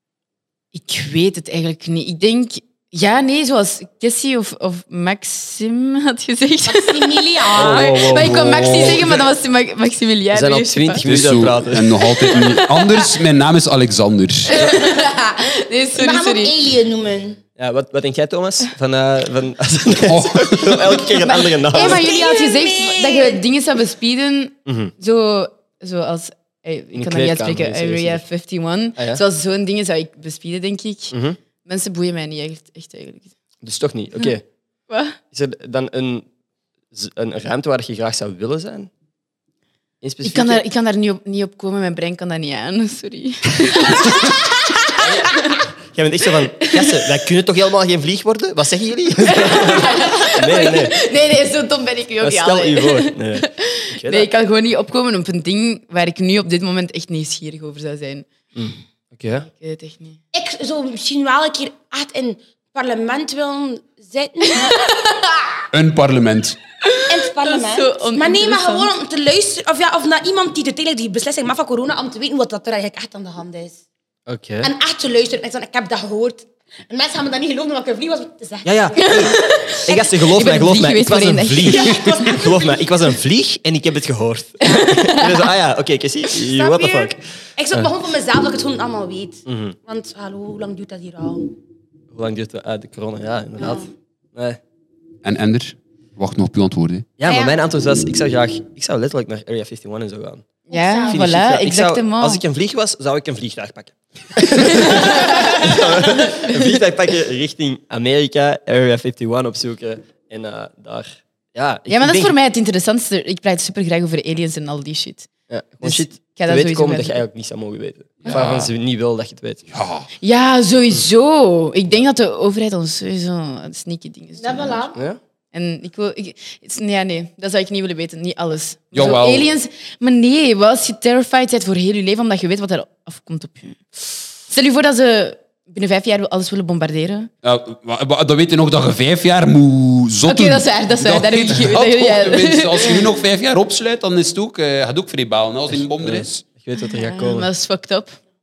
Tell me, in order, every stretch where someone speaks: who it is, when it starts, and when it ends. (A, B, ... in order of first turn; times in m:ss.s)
0:00.7-0:11.1 A
0:06.6-0:08.0 B
0:07.5-0:09.2 C
0:08.3-0:09.2 D
0:10.3-0:11.9 C
0:11.0-0:14.6 D
0:12.0-0:13.1 A
0:14.5-0:16.5 A
0:14.5-0:14.8 B
0:16.0-0:17.4 B
0:17.6-0:22.1 C
0:20.0-0:21.2 D
0:21.1-0:31.1 A
0:21.7-0:23.4 B
0:24.6-0:24.9 C
0:26.9-0:28.2 C
0:31.1-0:31.4 C
0:31.6-0:33.3 A
0:33.6-0:34.4 C
0:34.9-0:35.2 A
0:35.3-0:36.2 C
0:36.9-0:38.9 C
0:40.0-0:40.6 C
0:40.2-0:44.8 A
0:45.0-0:51.0 C
0:49.3-0:58.3 A
0:52.2-0:54.3 C
0:58.5-0:59.5 C
0:59.5-1:00.2 A
1:00.3-1:04.9 B
1:05.7-1:06.6 D
1:06.8-1:08.9 A
1:07.0-1:13.8 B
1:14.3-1:14.7 C
1:14.6-1:20.2 B
1:18.6-1:27.2 C
1:19.0-1:22.1 A
1:21.6-1:22.8 B
1:24.6-1:25.5 A
1:26.3-1:31.5 B
1:29.4-1:29.8 C
1:32.1-1:34.6 C
1:33.6-1:33.9 B
1:35.2-1:37.1 D
1:37.2-1:40.4 C
1:37.3-1:37.6 B
1:40.7-1:41.2 B
1:40.7-1:42.4 A
1:41.0-1:52.3 C
1:44.8-1:45.1 A
1:51.9-1:55.3 A
1:55.5-1:59.6 C
1:55.8-1:57.2 A
1:58.2-1:58.7 D
1:59.7-2:00.1 D
2:00.2-2:04.9 A
2:04.4-2:05.0 B
2:04.9-2:05.2 C
2:05.5-2:17.3 A
2:08.9-2:09.5 D
2:17.4-2:26.4 D
2:20.2-2:23.1 A
2:25.7-2:27.5 C
2:26.8-2:28.2 A